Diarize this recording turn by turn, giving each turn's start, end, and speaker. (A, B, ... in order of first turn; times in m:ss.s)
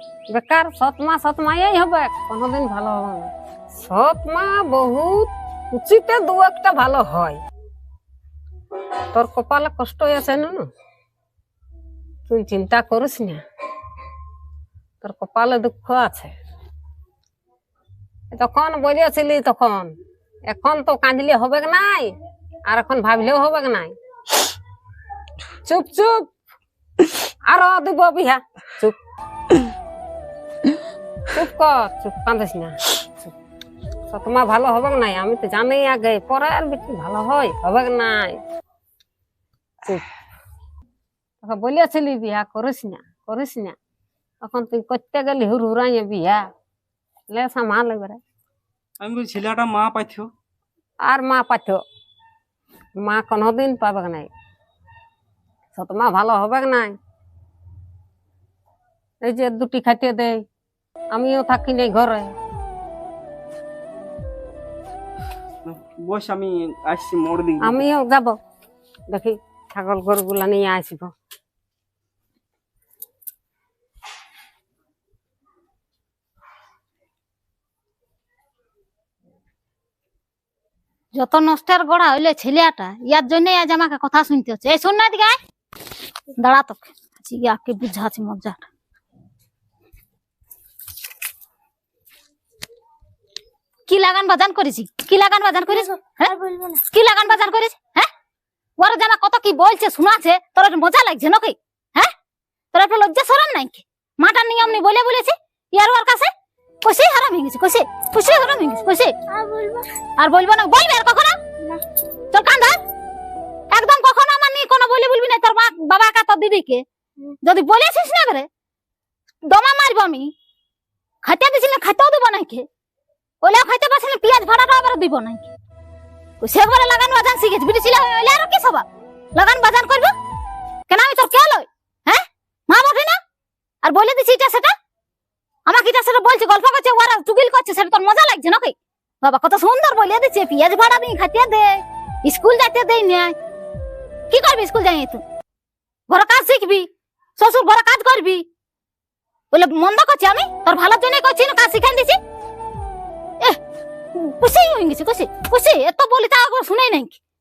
0:00.3-0:07.4 A
0:09.1-0:10.7 A
0:12.3-0:13.4 A
0:15.0-0:16.3 A
0:18.3-0:20.0 A
0:20.5-0:22.2 A
0:22.7-0:24.0 A
0:25.6-0:26.3 A
0:27.5-0:29.0 A
0:31.3-0:33.3 A
0:34.1-0:38.4 A
0:39.8-0:40.1 A
0:41.4-0:43.8 A
0:44.4-0:46.5 A
0:47.3-0:48.2 A
0:49.0-0:50.3 B
0:51.0-0:51.8 A
0:53.0-0:54.3 A
0:55.7-0:57.0 A
0:59.2-1:00.4 A
1:01.1-1:02.4 A
1:05.6-1:07.9 B
1:07.6-1:08.4 A
1:09.1-1:11.1 A
1:21.2-1:25.4 C
1:26.4-1:28.7 C
1:33.9-1:36.3 C
1:35.7-1:36.8 D
1:36.9-1:38.1 C
1:38.8-1:42.1 C
1:42.7-1:46.3 C
1:46.8-1:49.1 C
1:48.2-1:50.0 D
1:50.2-1:51.4 C
1:52.3-1:52.8 C
1:53.7-1:56.8 C
1:57.4-1:58.5 C
1:59.5-2:00.3 C
2:01.2-2:02.7 C
2:03.4-2:05.5 C
2:06.4-2:10.1 C
2:10.9-2:13.2 C
2:13.8-2:14.7 C
2:15.7-2:23.4 C
2:24.3-2:25.2 C
2:26.1-2:26.9 C
2:27.4-2:28.4 C
2:29.5-2:32.2 C
2:34.1-2:37.2 C